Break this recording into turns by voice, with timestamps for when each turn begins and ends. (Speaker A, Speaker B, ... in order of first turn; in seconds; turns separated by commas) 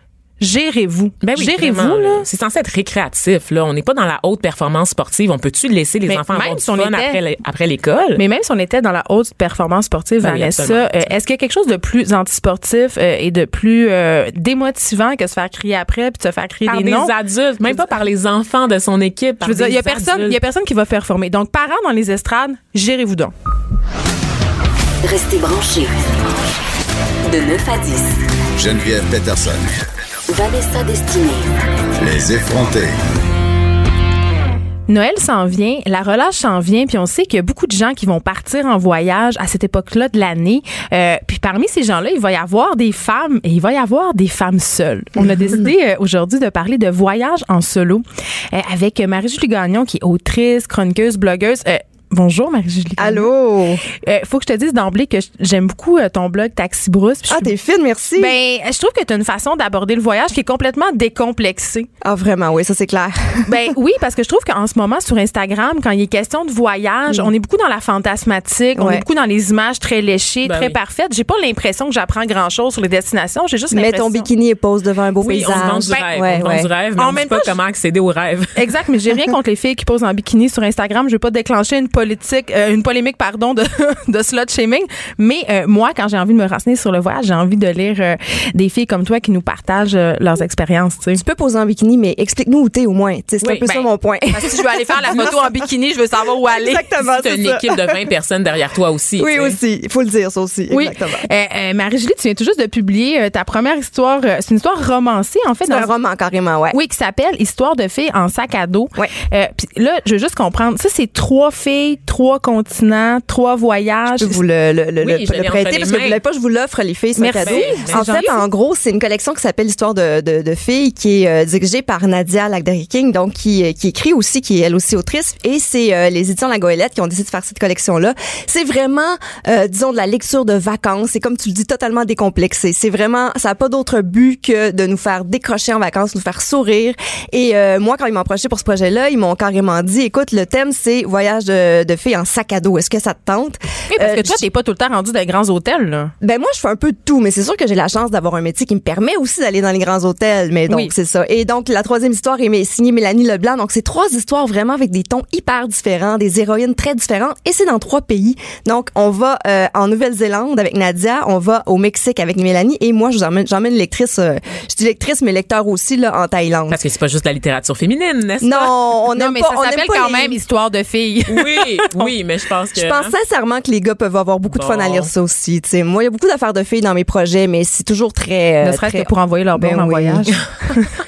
Speaker A: 0.4-2.2, Speaker B: 1.2-8.2, Speaker A: 6.1-7.2, Speaker A: 8.1-17.1, Speaker B: 10.2-11.1, Speaker B: 16.6-20.4, Speaker A: 19.4-23.3, Speaker C: 25.0-26.1, Speaker C: 27.2-28.3, Speaker D: 28.6-29.7, Speaker C: 30.3-31.5, Speaker D: 31.9-33.0, Speaker A: 34.9-53.3, Speaker E: 53.0-53.8, Speaker A: 53.9-57.5, Speaker E: 57.3-58.3, Speaker A: 58.2-61.9, Speaker E: 62.0-63.6, Speaker A: 63.5-74.3, Speaker E: 68.8-69.0, Speaker B: 70.4-70.8, Speaker E: 73.7-76.7, Speaker B: 75.2-78.7, Speaker A: 77.0-77.6, Speaker A: 78.5-91.2, Speaker E: 91.1-95.5, Speaker B: 93.4-93.8, Speaker A: 94.3-96.9, Speaker B: 95.1-95.4, Speaker E: 96.4-98.1, Speaker B: 97.2-99.6, Speaker E: 99.2-101.3, Speaker A: 100.7-105.9, Speaker E: 105.7-106.8, Speaker A: 106.7-114.4, Speaker E: 114.1-144.4, Speaker B: 115.0-116.2, Speaker A: 117.2-118.4, Speaker B: 117.4-118.0, Speaker A: 143.9-146.1, Speaker E: 146.2-166.8, Speaker B: 166.7-168.7, Speaker E: 168.4-170.4, Speaker A: 169.2-172.1, Speaker B: 171.3-173.1, Speaker E: 172.8-180.3, Speaker B: 174.5-175.1, Speaker A: 178.6-180.9